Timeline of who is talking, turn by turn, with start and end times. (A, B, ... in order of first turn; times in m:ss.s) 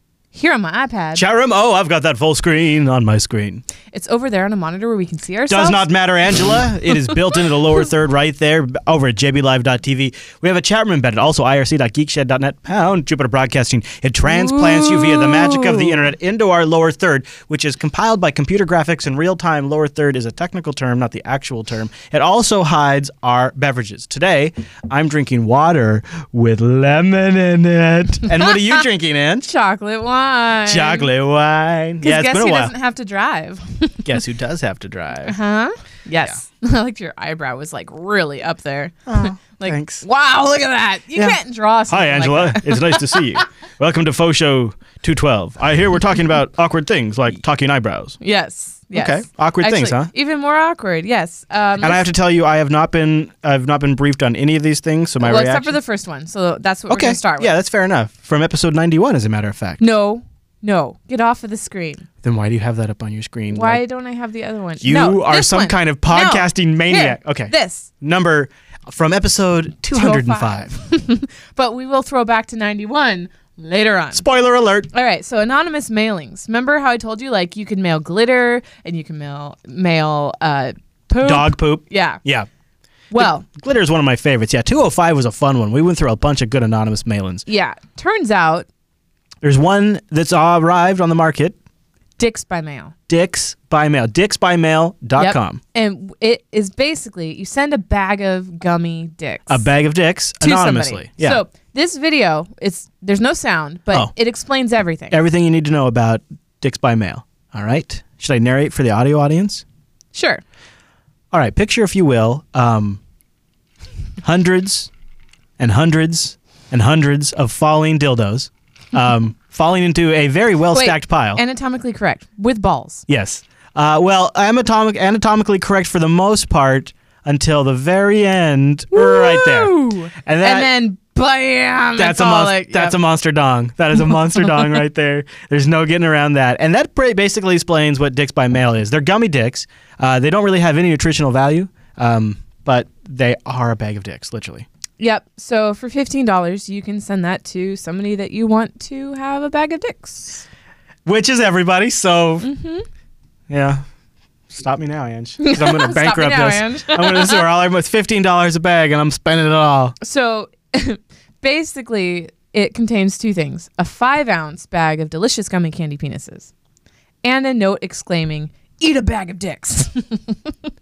0:00.3-0:01.2 A
0:01.2-0:03.6 B
0:03.9-0:05.9 A
0:05.5-0:29.5 B
0:14.2-0:16.1 A
0:28.3-0:28.8 A
0:29.4-0:31.1 A
0:30.7-0:32.7 B
0:32.0-0:34.0 A
0:34.0-0:35.4 B
0:35.3-0:43.4 A
0:39.1-0:40.0 B
0:41.1-0:48.2 B
0:48.2-0:52.1 A
0:48.9-0:50.1 B
0:51.8-0:55.8 B
0:55.2-0:57.5 A
0:56.9-0:59.8 B
0:59.8-1:02.1 A
1:02.2-1:03.8 B
1:03.5-1:07.9 A
1:04.8-1:10.8 B
1:09.9-1:14.3 A
1:14.1-1:14.9 B
1:14.9-1:22.2 A
1:21.2-1:22.5 B
1:23.1-1:23.5 A
1:23.1-1:27.4 B
1:27.5-1:28.7 A
1:29.4-1:31.6 B
1:32.2-1:32.9 A
1:33.1-1:35.6 B
1:35.2-1:39.7 A
1:39.5-1:41.4 B
1:40.4-1:45.2 A
1:45.1-1:49.6 B
1:50.1-1:50.4 A
1:51.3-1:53.0 B
1:54.2-1:54.9 B
1:55.6-2:01.4 B
2:00.7-2:03.0 A
2:03.1-2:10.8 B
2:08.9-2:13.0 A
2:12.0-2:24.7 B
2:25.0-2:30.5 A
2:31.0-2:32.5 B
2:32.4-2:32.9 A
2:33.5-2:33.8 B
2:34.5-2:40.0 B
2:35.4-2:37.5 A
2:40.0-2:46.5 A
2:47.2-2:50.5 A